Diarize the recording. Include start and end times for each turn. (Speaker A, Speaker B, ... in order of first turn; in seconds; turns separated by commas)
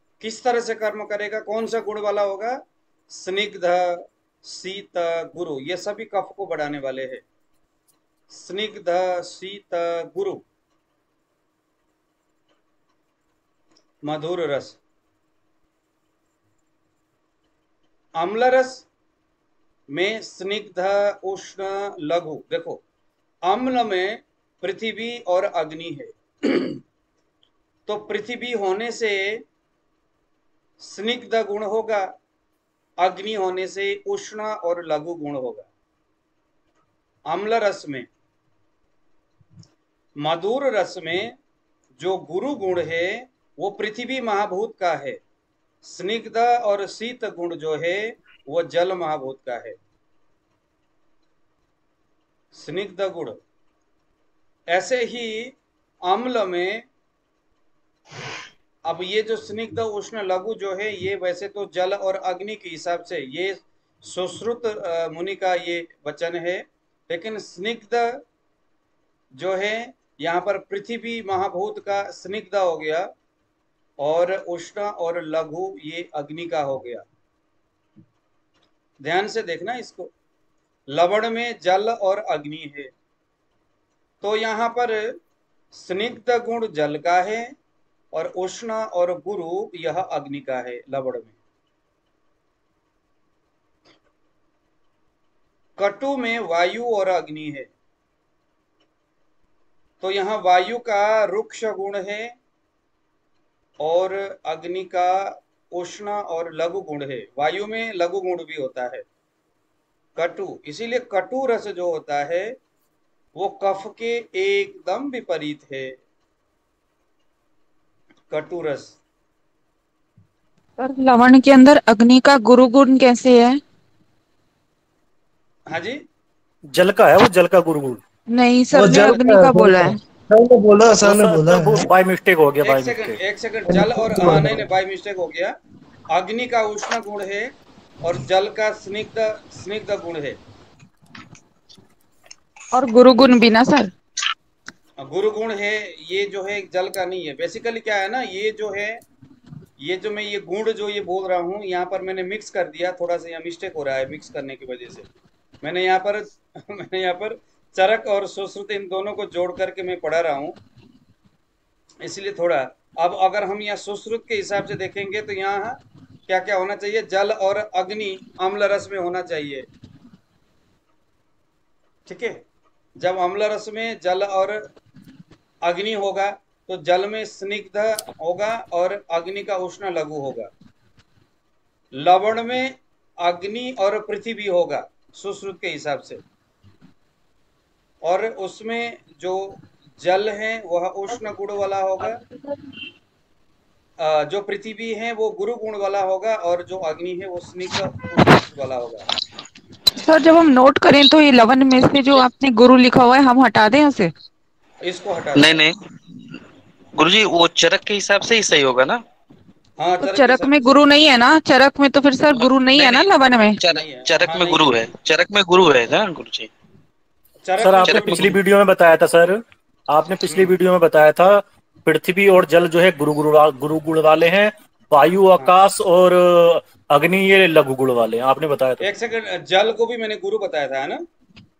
Speaker A: 0.2-7.2, Speaker A: 8.3-10.4, Speaker A: 14.0-14.8, Speaker A: 18.2-18.9, Speaker A: 19.9-22.8, Speaker A: 23.4-26.8, Speaker A: 27.9-29.4, Speaker A: 30.8-32.1, Speaker A: 33.0-35.7, Speaker A: 37.3-38.1, Speaker A: 40.2-41.4, Speaker A: 42.0-45.2, Speaker A: 45.8-49.8, Speaker A: 52.5-53.4, Speaker A: 54.7-55.5, Speaker A: 56.0-56.8, Speaker A: 58.9-68.2, Speaker A: 69.4-73.1, Speaker A: 74.0-77.0, Speaker A: 79.0-80.1, Speaker A: 80.9-82.9, Speaker A: 84.2-85.2, Speaker A: 85.7-87.5, Speaker A: 88.1-91.3, Speaker A: 95.8-97.7, Speaker A: 100.0-102.3, Speaker A: 103.8-109.0, Speaker A: 110.2-112.5, Speaker A: 113.3-116.0, Speaker A: 118.3-119.0, Speaker B: 120.8-123.6, Speaker A: 125.7-126.0, Speaker C: 126.7-128.0, Speaker B: 128.3-130.0, Speaker D: 128.7-131.9, Speaker C: 131.0-133.2, Speaker A: 132.6-135.5, Speaker D: 133.7-134.6, Speaker A: 136.1-140.4, Speaker B: 142.7-143.9, Speaker A: 145.0-149.0, Speaker A: 149.8-155.1, Speaker A: 155.6-160.6, Speaker A: 162.0-169.7, Speaker A: 172.1-172.4, Speaker A: 173.0-174.6, Speaker A: 175.6-180.5, Speaker A: 181.9-186.2, Speaker A: 188.0-192.2, Speaker A: 194.0-199.1, Speaker B: 200.0-204.1, Speaker A: 204.8-205.6, Speaker E: 205.3-205.8, Speaker E: 207.0-209.0, Speaker A: 209.8-210.7, Speaker B: 210.0-213.6, Speaker E: 212.3-216.5, Speaker A: 213.7-214.8, Speaker A: 217.4-218.3, Speaker C: 217.6-228.8, Speaker E: 217.8-218.3, Speaker A: 228.8-231.0